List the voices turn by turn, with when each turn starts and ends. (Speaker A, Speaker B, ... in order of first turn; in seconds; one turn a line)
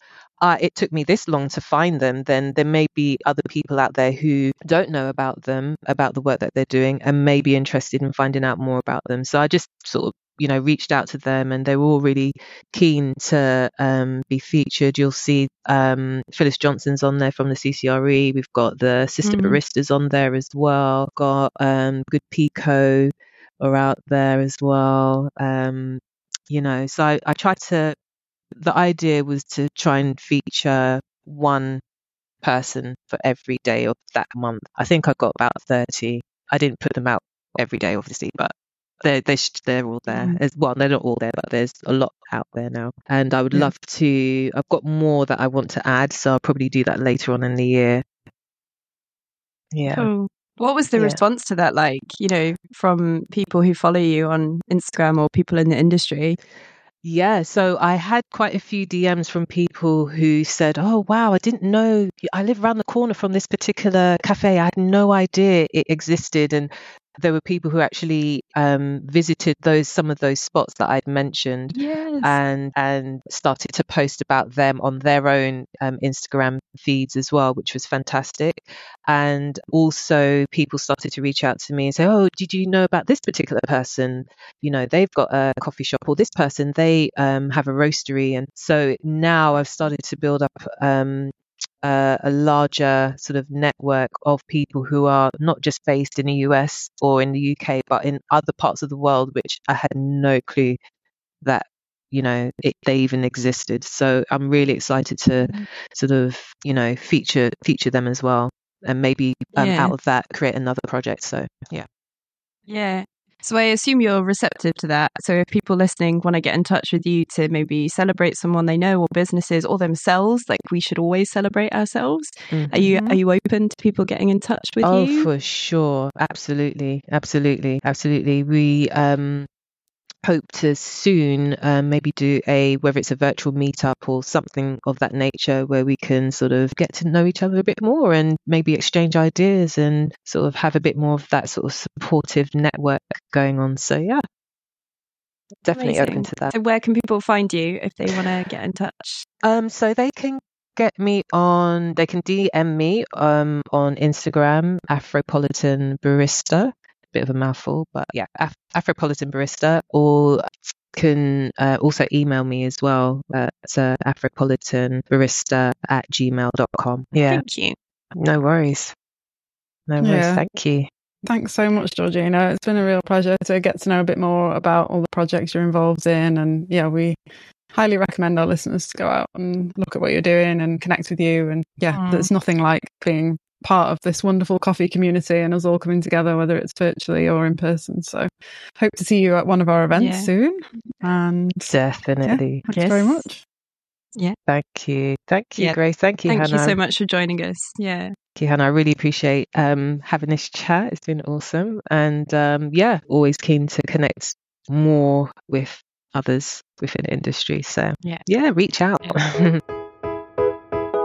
Speaker A: 0.4-28.0
Speaker B: 19.2-19.6
Speaker A: 28.6-31.8
Speaker A: 32.4-48.0
Speaker B: 40.1-40.4
Speaker A: 49.7-50.1
Speaker B: 49.9-56.4
Speaker A: 51.0-51.2
Speaker A: 57.0-100.8
Speaker B: 71.7-72.4
Speaker A: 101.4-111.9
Speaker B: 109.5-109.9
Speaker B: 112.7-125.3
Speaker A: 122.5-123.0
Speaker A: 124.8-129.5
Speaker A: 130.2-144.2
Speaker A: 145.6-146.5
Speaker B: 145.7-149.3
Speaker A: 149.4-167.4
Speaker B: 167.3-167.8
Speaker A: 168.2-168.9
Speaker A: 169.9-170.9
Speaker C: 170.0-170.4
Speaker C: 171.2-177.2
Speaker C: 177.7-191.7
Speaker B: 181.9-182.3
Speaker B: 189.9-190.3
Speaker A: 191.7-192.6
Speaker C: 192.3-193.4
Speaker B: 192.7-193.2
Speaker A: 194.5-196.8
Speaker B: 195.6-198.2
Speaker A: 198.4-209.6